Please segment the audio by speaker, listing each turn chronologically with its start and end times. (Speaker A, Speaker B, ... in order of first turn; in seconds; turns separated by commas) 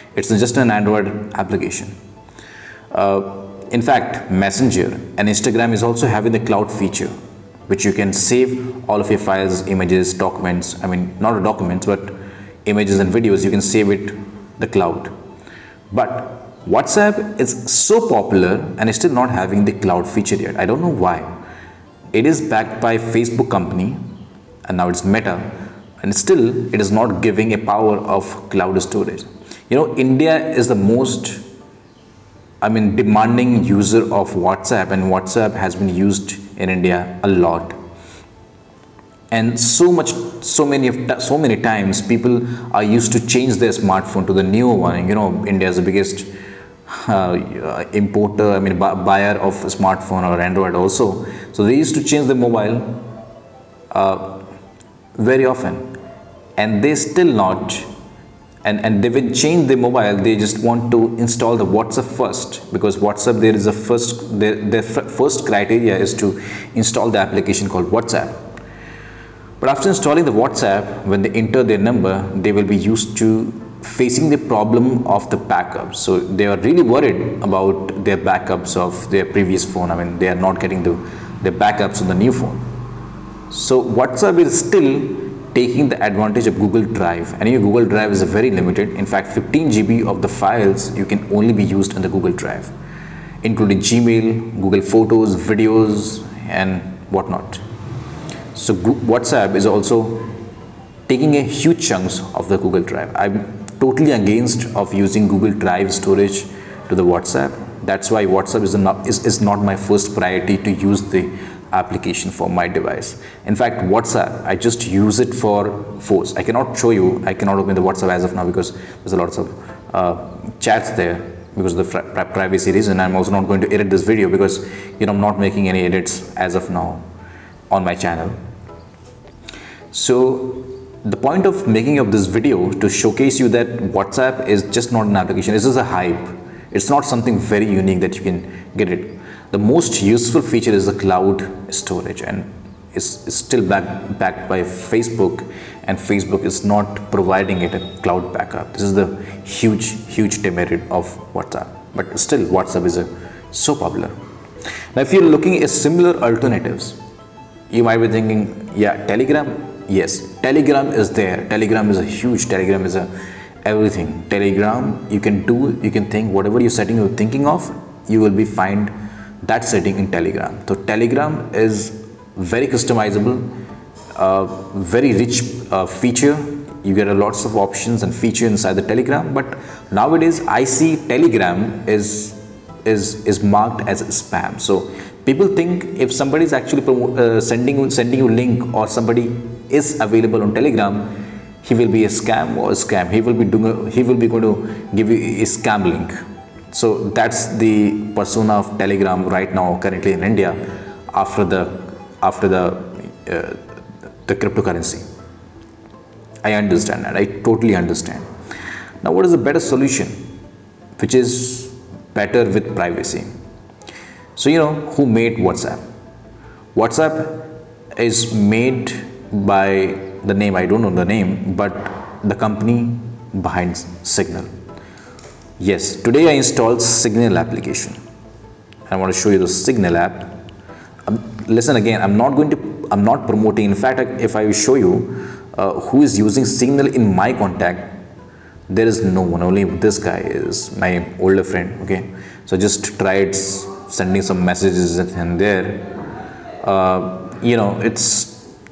Speaker A: 0.1-1.9, Speaker A: 2.9-7.1, Speaker A: 7.7-15.1, Speaker A: 15.9-21.3, Speaker A: 22.1-24.0, Speaker A: 24.6-31.4, Speaker A: 32.6-37.8, Speaker A: 39.3-46.3, Speaker A: 46.9-53.0, Speaker A: 53.9-54.4, Speaker A: 55.2-55.9, Speaker A: 56.6-57.9, Speaker A: 58.6-68.4, Speaker A: 69.6-82.6, Speaker A: 83.5-92.7, Speaker A: 93.4-97.6, Speaker A: 98.5-100.3, Speaker A: 101.1-127.0, Speaker A: 127.7-128.4, Speaker A: 129.9-154.1, Speaker A: 154.9-157.0, Speaker A: 157.7-163.1, Speaker A: 163.6-168.9, Speaker A: 169.4-173.5, Speaker A: 174.1-191.1, Speaker A: 191.6-196.1, Speaker A: 196.7-200.6, Speaker A: 201.1-203.6, Speaker A: 204.2-205.0, Speaker A: 206.4-208.2, Speaker A: 209.0-210.1, Speaker A: 211.0-213.3, Speaker A: 214.3-215.8, Speaker A: 216.7-224.5, Speaker A: 225.6-228.0, Speaker A: 228.9-230.3, Speaker A: 231.1-238.0, Speaker A: 238.7-245.9, Speaker A: 246.6-248.5